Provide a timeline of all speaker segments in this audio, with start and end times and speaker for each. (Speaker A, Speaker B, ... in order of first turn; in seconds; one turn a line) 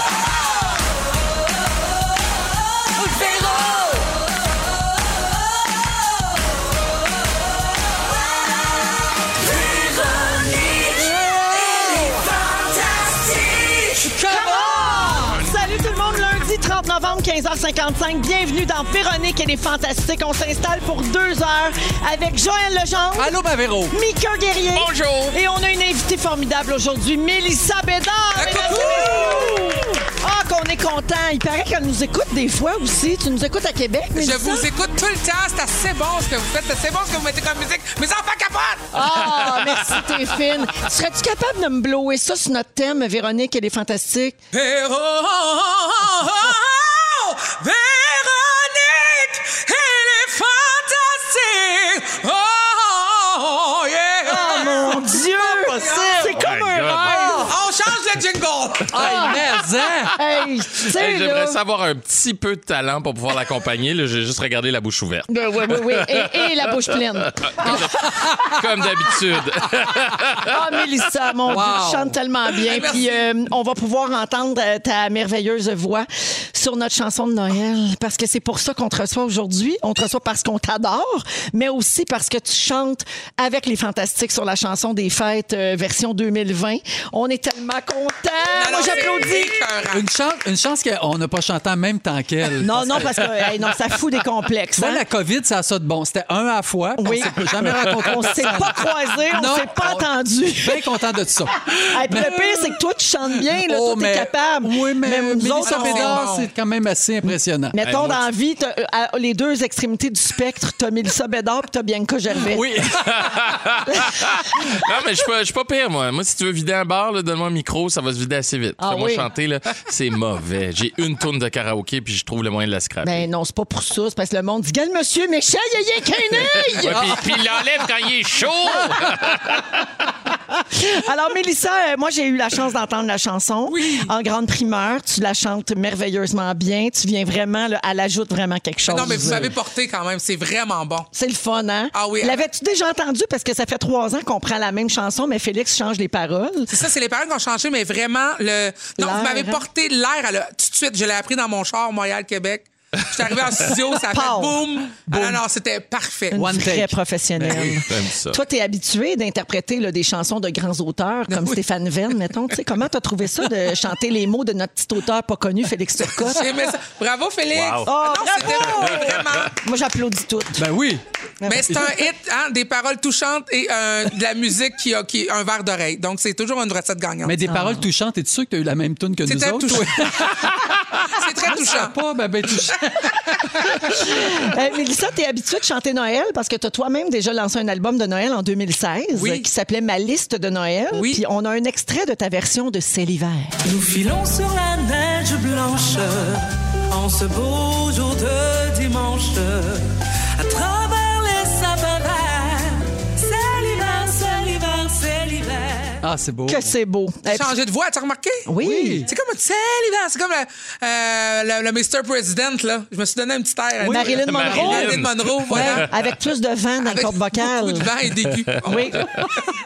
Speaker A: 3.0-4.0
Speaker A: 9.4-14.1
Speaker B: 14.0-15.4
Speaker C: 14.1-23.4
Speaker B: 23.1-23.9
Speaker C: 23.9-34.7
Speaker D: 24.7-25.4
Speaker E: 28.3-29.7
Speaker E: 34.1-38.9
Speaker C: 38.9-44.4
Speaker D: 39.5-40.0
Speaker E: 44.5-56.4
Speaker C: 54.2-57.5
Speaker D: 56.4-57.4
Speaker B: 57.0-57.4
Speaker E: 57.4-59.4
Speaker B: 58.9-60.2
Speaker C: 59.0-59.4
Speaker C: 60.1-61.6
Speaker D: 60.8-70.5
Speaker C: 65.3-68.0
Speaker B: 67.6-68.6
Speaker C: 70.4-89.6
Speaker B: 71.5-72.2
Speaker E: 72.6-73.2
Speaker E: 88.5-90.0
Speaker B: 89.9-93.2
Speaker C: 92.6-95.0
Speaker B: 94.8-102.8
Speaker C: 97.0-100.8
Speaker D: 97.6-97.9
Speaker C: 101.8-106.2
Speaker B: 103.5-107.8
Speaker E: 105.6-106.5
Speaker C: 107.7-112.7
Speaker D: 107.8-108.2
Speaker B: 112.3-113.4
Speaker D: 112.9-123.2
Speaker C: 113.9-114.3
Speaker C: 118.8-119.3
Speaker C: 123.0-127.2
Speaker D: 126.4-129.7
Speaker B: 127.0-127.4
Speaker C: 130.7-139.5
Speaker E: 133.7-134.0
Speaker E: 138.8-141.1
Speaker B: 139.0-139.5
Speaker C: 141.1-146.7
Speaker E: 141.9-142.4
Speaker E: 146.7-156.5
Speaker C: 149.0-149.6
Speaker C: 154.1-154.6
Speaker B: 155.1-155.4
Speaker C: 156.3-166.7
Speaker B: 156.3-157.0
Speaker D: 157.4-158.4
Speaker E: 161.3-161.6
Speaker E: 166.1-169.6
Speaker D: 167.5-167.9
Speaker C: 167.8-170.7
Speaker D: 168.5-169.1
Speaker B: 170.6-171.0
Speaker C: 171.4-171.7
Speaker E: 171.4-177.5
Speaker B: 171.7-172.0
Speaker B: 177.2-180.7
Speaker C: 177.5-177.8
Speaker E: 179.2-181.9
Speaker B: 181.2-183.1
Speaker E: 183.3-184.1
Speaker C: 183.9-193.5
Speaker E: 189.1-189.5
Speaker E: 190.9-191.2
Speaker A: 193.6-206.0
Speaker B: 206.0-206.7
Speaker C: 206.5-207.5
Speaker E: 207.3-208.5
Speaker C: 208.5-209.1
Speaker B: 208.6-209.1
Speaker E: 209.0-215.9
Speaker B: 213.8-215.0
Speaker C: 213.8-214.9
Speaker D: 214.2-215.8
Speaker C: 215.5-217.9
Speaker E: 216.8-219.4
Speaker C: 218.6-219.2